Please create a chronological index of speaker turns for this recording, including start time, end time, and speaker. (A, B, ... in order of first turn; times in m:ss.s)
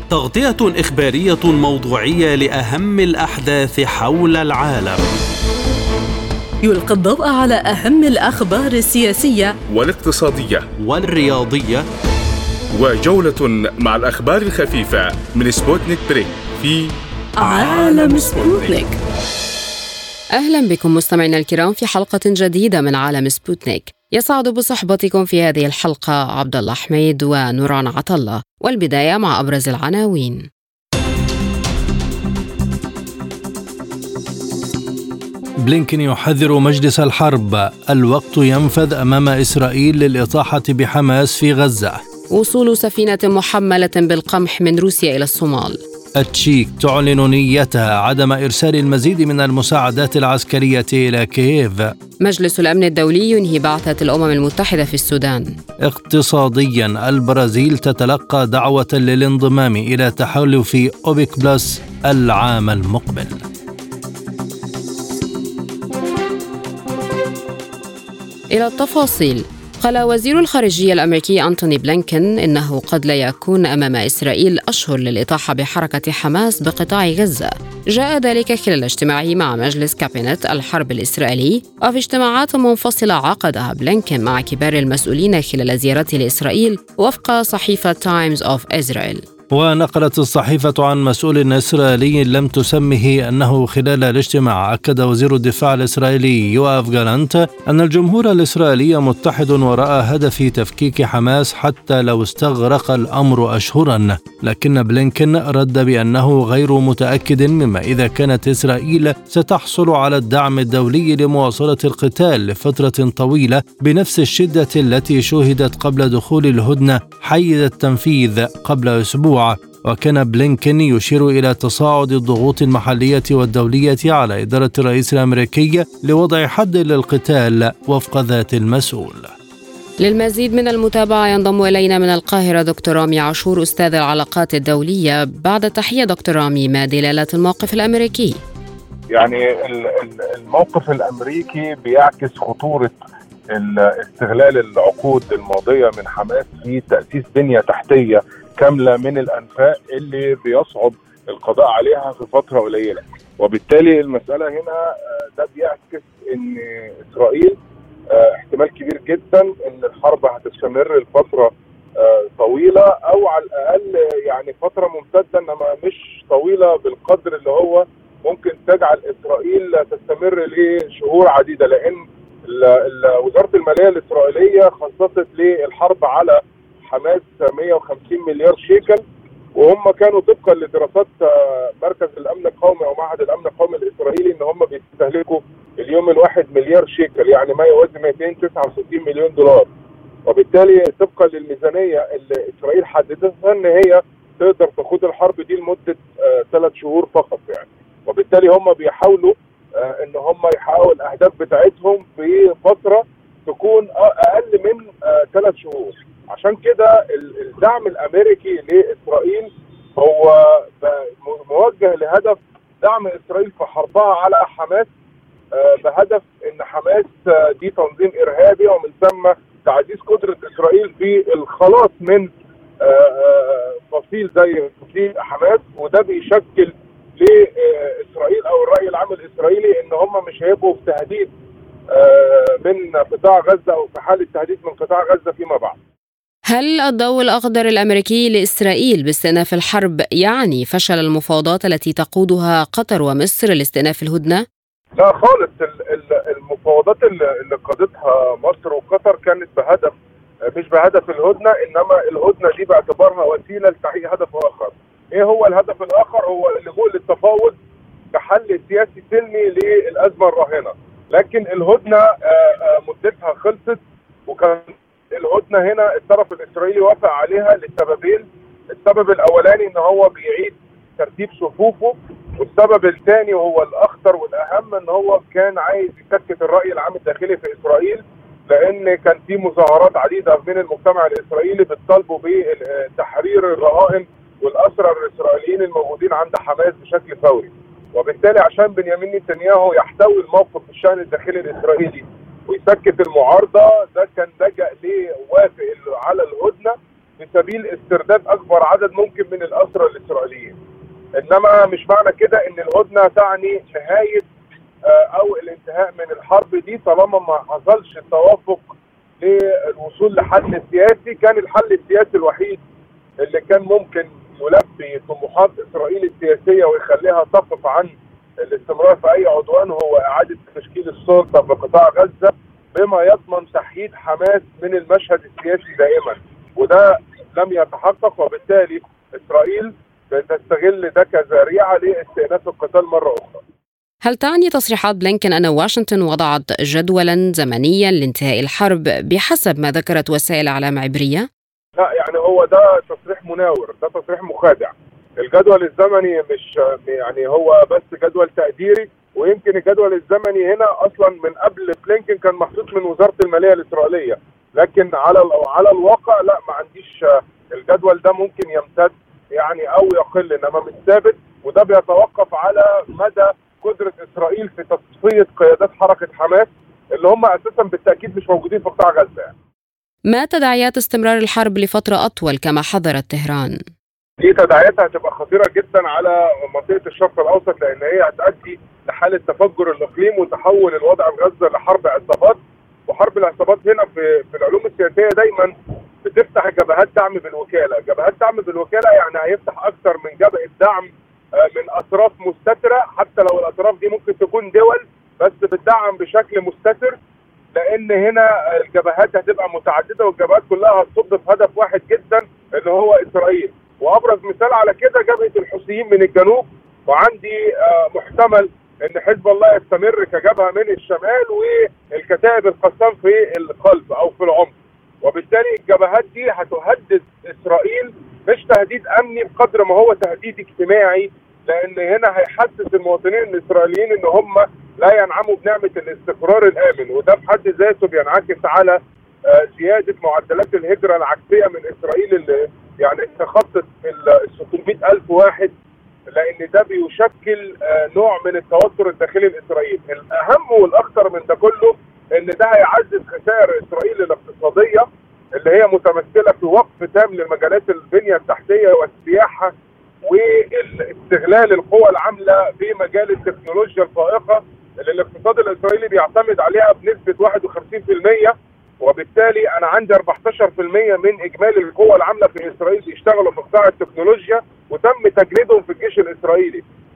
0:00.1-0:05.1 A
0:06.6-0:09.6 B
0:09.7-0:10.7 C
0:10.8-0:11.9 A
0:12.7-0:18.8 C
0:17.4-0:19.0 B
0:20.4-0:30.4 D
0:35.6-0:42.0 E
0:42.3-0:45.8 D
0:46.2-0:51.9 E
0:52.2-0:55.5 D
0:55.9-1:03.4 E
1:08.5-1:29.2 D
1:29.5-2:09.3 E
2:10.0-2:18.4 D
2:19.1-2:22.9 F
2:23.5-2:37.6 F
2:38.1-2:59.0 F
2:59.6-3:09.7 F
3:10.3-3:34.9 F
3:35.5-3:42.3 F
3:42.8-3:51.3 F
3:51.9-3:55.8 F
3:56.5-4:04.4 D
4:05.0-4:10.0 F
4:10.5-4:17.6 F
4:18.1-5:00.6 F
5:01.2-5:04.3 F
5:04.9-5:12.6 F
5:13.2-5:33.4 F
5:34.0-5:41.3 D
5:41.8-6:09.3 F
6:10.1-6:13.6 D
6:14.2-6:25.5 F
6:26.0-6:37.0 F
6:37.5-7:15.5 F
7:16.1-7:29.5 F
7:30.0-7:46.6 F